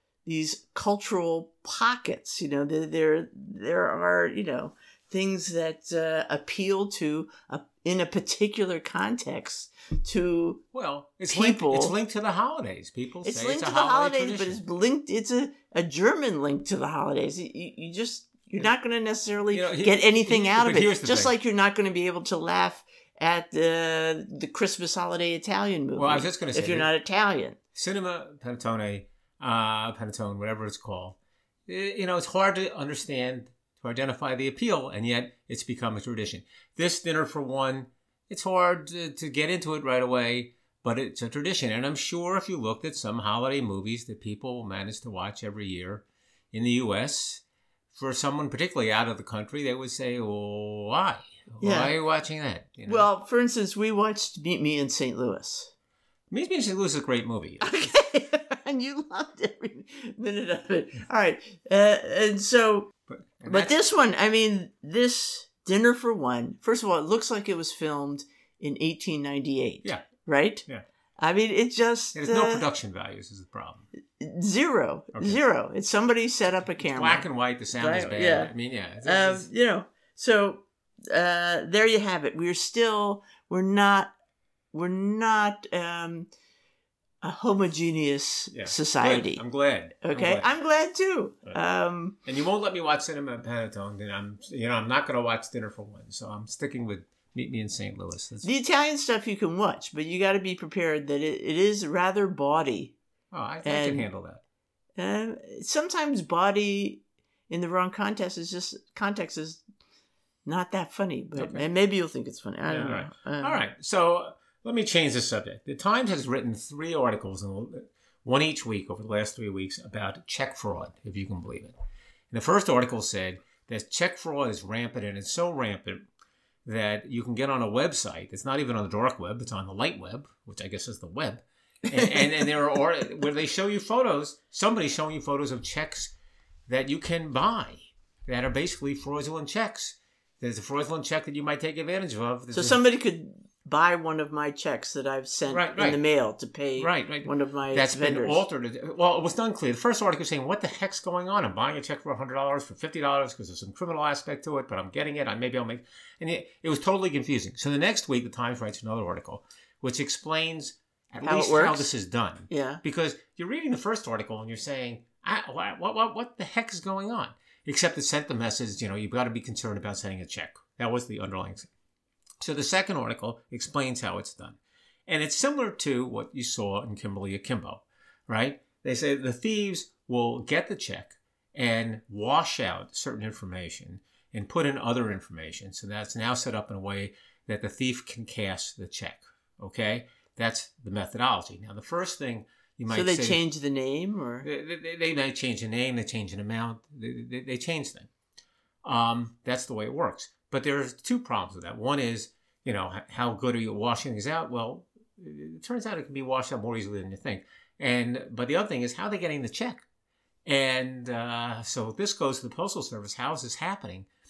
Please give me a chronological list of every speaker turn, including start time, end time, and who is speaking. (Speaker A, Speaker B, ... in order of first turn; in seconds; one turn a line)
Speaker A: 0.2-10.6
Speaker B: 10.7-14.6
Speaker A: 11.3-11.9
Speaker A: 13.2-27.6
Speaker B: 19.5-21.3
Speaker B: 26.0-26.9
Speaker B: 27.8-53.1
Speaker A: 51.6-51.9
Speaker A: 52.9-55.7
Speaker B: 56.3-57.9
Speaker A: 57.6-62.9
Speaker B: 63.1-63.7
Speaker A: 63.5-70.7
Speaker A: 71.2-72.6
Speaker B: 72.2-73.9
Speaker A: 74.2-78.5
Speaker B: 76.8-79.5
Speaker A: 79.0-84.1
Speaker A: 84.7-86.3
Speaker A: 87.2-89.4
Speaker B: 88.5-90.5
Speaker A: 90.0-92.2
Speaker B: 92.2-98.5
Speaker A: 98.4-103.0
Speaker B: 103.3-104.4
Speaker A: 103.6-104.1
Speaker A: 105.0-109.6
Speaker A: 110.5-113.6
Speaker B: 111.4-111.6
Speaker B: 112.7-121.7
Speaker B: 122.3-126.0
Speaker B: 126.7-136.1
Speaker A: 131.9-132.5
Speaker B: 136.7-142.8
Speaker A: 142.5-148.4
Speaker B: 145.5-146.0
Speaker B: 146.8-171.7
Speaker A: 161.2-161.9
Speaker A: 162.5-162.8
Speaker B: 172.4-193.4
Speaker A: 192.9-194.5
Speaker B: 194.4-198.1
Speaker B: 198.8-209.8
Speaker B: 210.5-214.1